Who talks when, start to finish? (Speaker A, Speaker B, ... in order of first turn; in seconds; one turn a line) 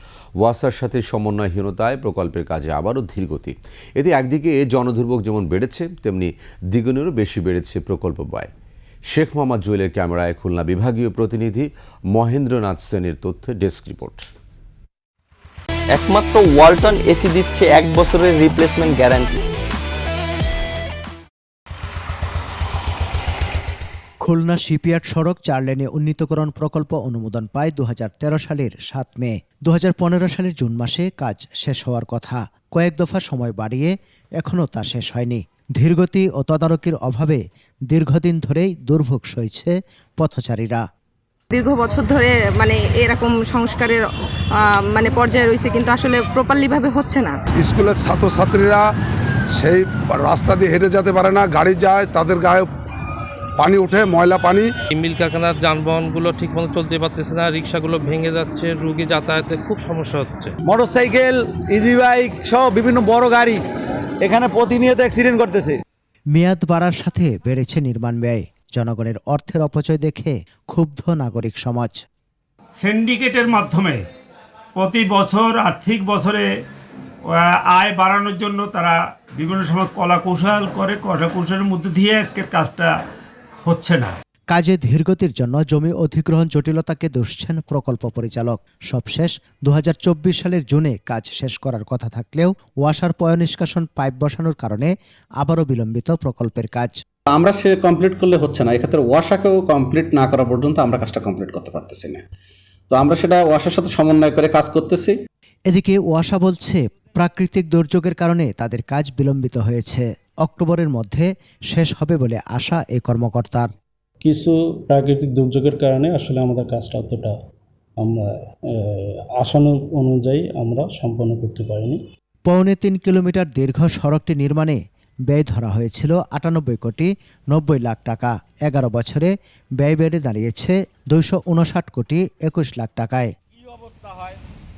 Speaker A: 0.4-8.5
Speaker A: 9.1-11.6
Speaker A: 12.1-14.2
Speaker B: 15.9-19.4
Speaker C: 24.2-40.8
Speaker D: 41.5-47.4
Speaker E: 47.6-48.8
Speaker E: 49.6-52.7
Speaker E: 53.6-54.6
Speaker F: 54.9-60.5
Speaker G: 60.7-63.6
Speaker G: 64.2-65.8
Speaker C: 66.3-71.9
Speaker H: 72.8-74.0
Speaker H: 74.8-76.5
Speaker H: 77.3-82.9
Speaker H: 83.6-84.1
Speaker C: 84.5-96.9
Speaker I: 97.3-102.2
Speaker I: 102.9-105.2
Speaker C: 105.7-113.7
Speaker J: 114.2-117.3
Speaker J: 118.0-122.0
Speaker C: 122.5-133.3